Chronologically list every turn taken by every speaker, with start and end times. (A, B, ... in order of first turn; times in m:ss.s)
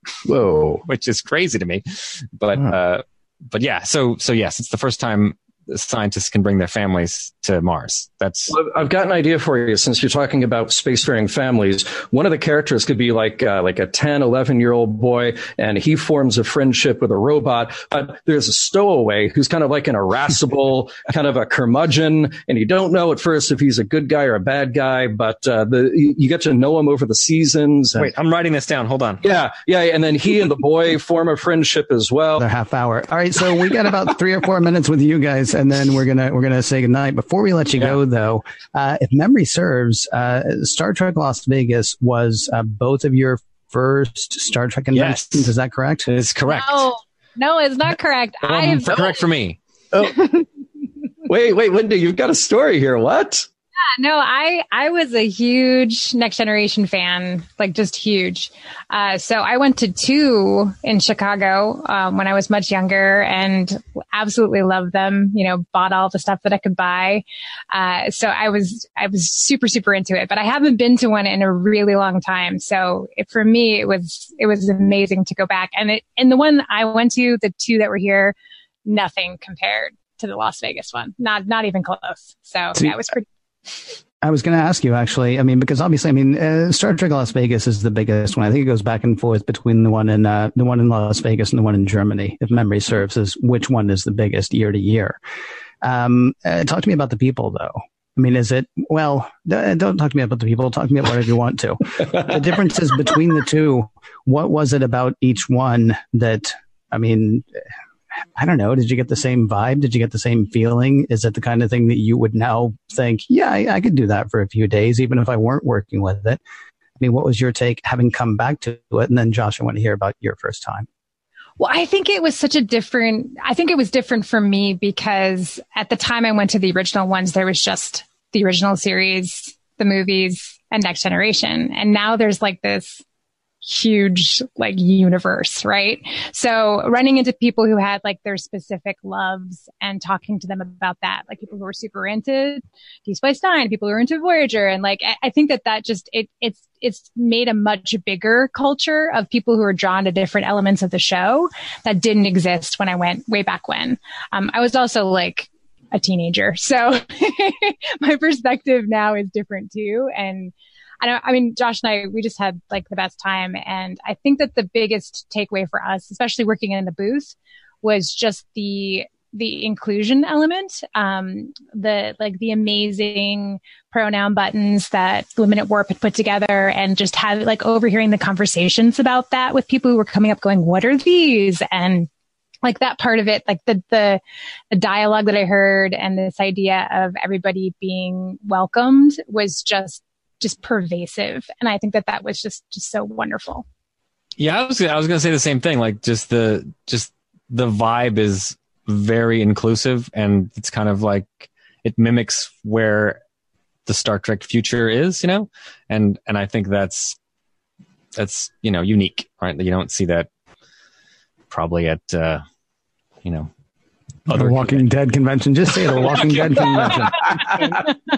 0:00.2-0:00.8 A
0:00.8-0:08.6 B
0:08.5-0:28.1 A
0:27.9-0:29.2 B
0:29.2-0:32.4 A
0:32.4-0:46.1 C
0:44.9-0:45.5 B
0:46.1-0:46.9 B
0:46.5-0:49.1 D
0:48.4-0:49.6 B
0:49.9-0:50.4 A
0:51.2-0:53.4 A
0:54.0-1:23.2 D
1:24.2-1:35.2 C
1:35.8-1:47.4 C
1:48.4-1:56.4 C
1:57.0-2:00.9 C
2:01.6-2:13.0 D
2:13.6-3:02.1 D
3:02.6-3:13.6 D
3:14.4-3:23.2 B
3:23.8-3:27.2 B
3:28.2-3:30.3 B
3:31.5-3:32.4 B
3:33.2-3:33.5 B
3:34.2-3:34.8 B
3:34.3-3:37.3 C
3:36.0-3:37.3 B